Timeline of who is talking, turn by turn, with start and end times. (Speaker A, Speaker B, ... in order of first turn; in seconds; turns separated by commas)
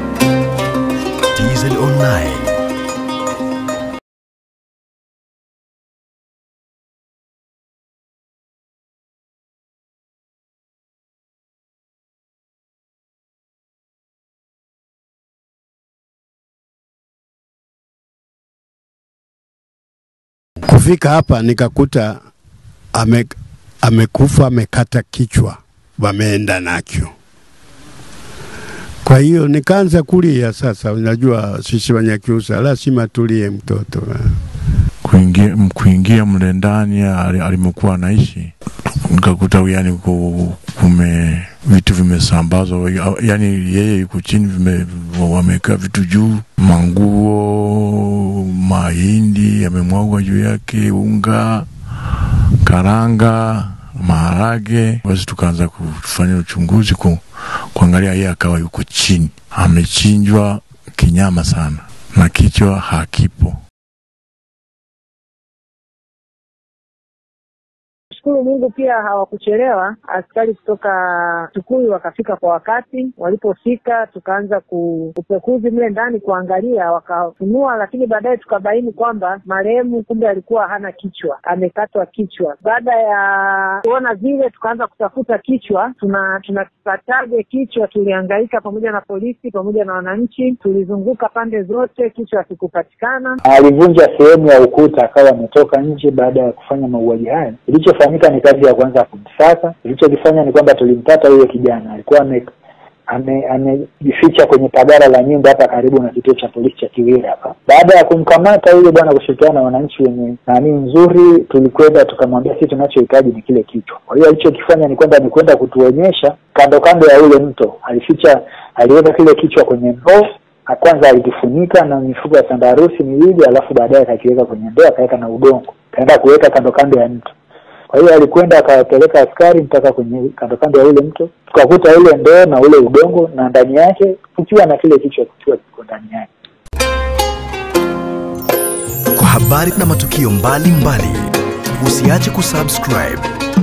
Speaker A: 1.3-2.6, Speaker B: 20.6-22.2, Speaker B: 22.9-27.1, Speaker B: 29.0-34.4, Speaker C: 35.0-38.5, Speaker C: 39.0-51.7, Speaker C: 52.6-57.2, Speaker C: 57.7-63.6, Speaker D: 68.1-93.4, Speaker E: 93.4-102.5, Speaker E: 103.1-127.3, Speaker E: 127.9-136.3, Speaker A: 139.1-143.3